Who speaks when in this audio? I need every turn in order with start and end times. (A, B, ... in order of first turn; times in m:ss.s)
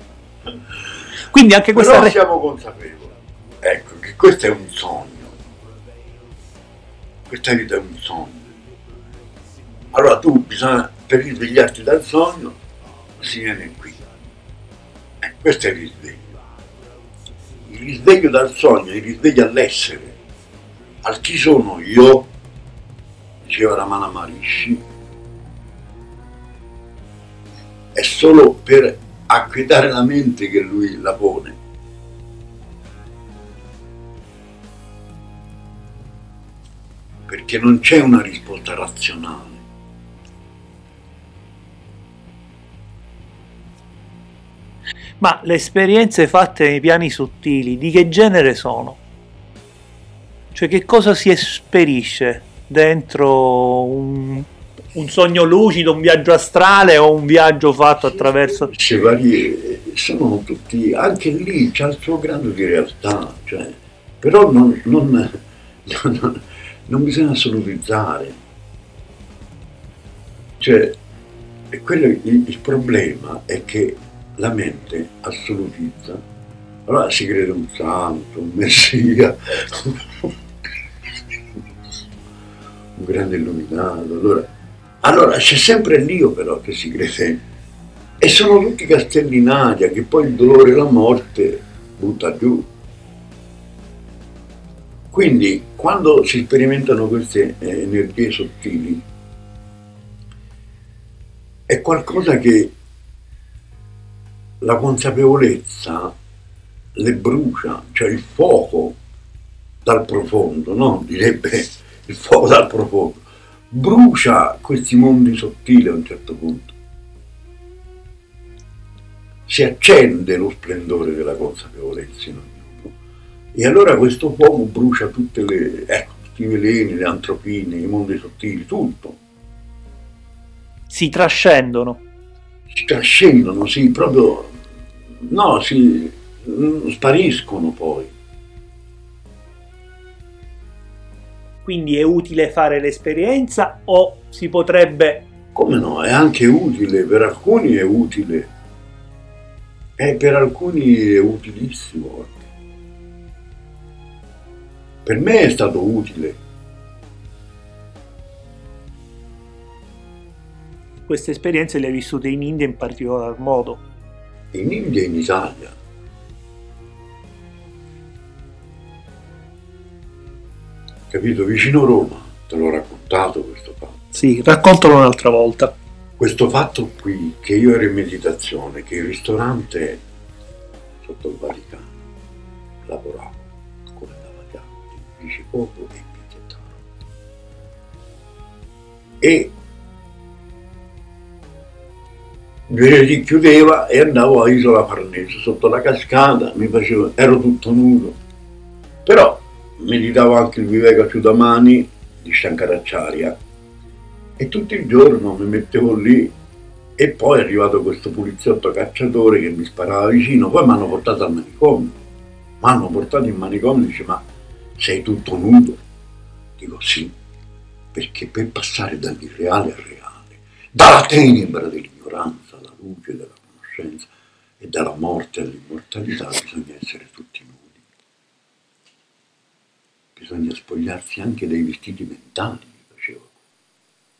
0:01.3-0:02.2 A
0:01.7-0:05.4 B
0:07.3-0:08.4 B
0:09.9-0:12.6 B
0:13.2-0:14.1 B
0:15.2-0:16.4 B
0:17.6-0:20.2 B
0:21.0-0:22.3 B
0:23.4-0:24.8 B
0:27.9-0:31.6 B
0:37.3-0:39.6 B
0:45.2-0:49.0 A
0:50.5-0:58.7 A
0:58.0-1:08.4 B
1:10.6-1:11.0 B
1:11.7-1:16.2 B
1:16.9-1:20.4 B
1:21.3-1:21.6 B
1:23.0-1:24.5 B
1:25.0-1:27.4 B
1:28.2-1:32.7 B
1:35.1-1:39.0 B
1:41.7-1:42.7 B
1:44.6-1:46.2 B
1:47.0-1:49.0 B
1:49.8-1:56.7 B
1:59.5-2:03.0 B
2:03.5-2:09.2 B
2:10.9-2:12.0 A
2:12.7-2:14.6 B
2:15.2-2:18.1 B
2:21.6-2:25.3 A
2:25.6-2:28.5 B
2:30.0-2:32.4 B
2:35.0-2:36.4 B
2:41.1-2:43.8 A
2:44.5-2:45.8 B
2:51.1-2:54.1 B
2:54.1-2:55.7 A
2:56.2-3:00.0 B
3:01.0-3:02.0 B
3:02.8-3:06.8 B
3:09.2-3:09.5 B
3:12.7-3:18.2 B
3:19.0-3:23.4 B
3:24.4-3:26.3 B
3:27.0-3:32.0 B
3:32.6-3:34.2 B
3:34.8-3:35.8 B
3:36.6-3:37.1 B
3:37.9-3:44.1 B
3:44.6-3:47.8 B
3:50.2-3:53.3 B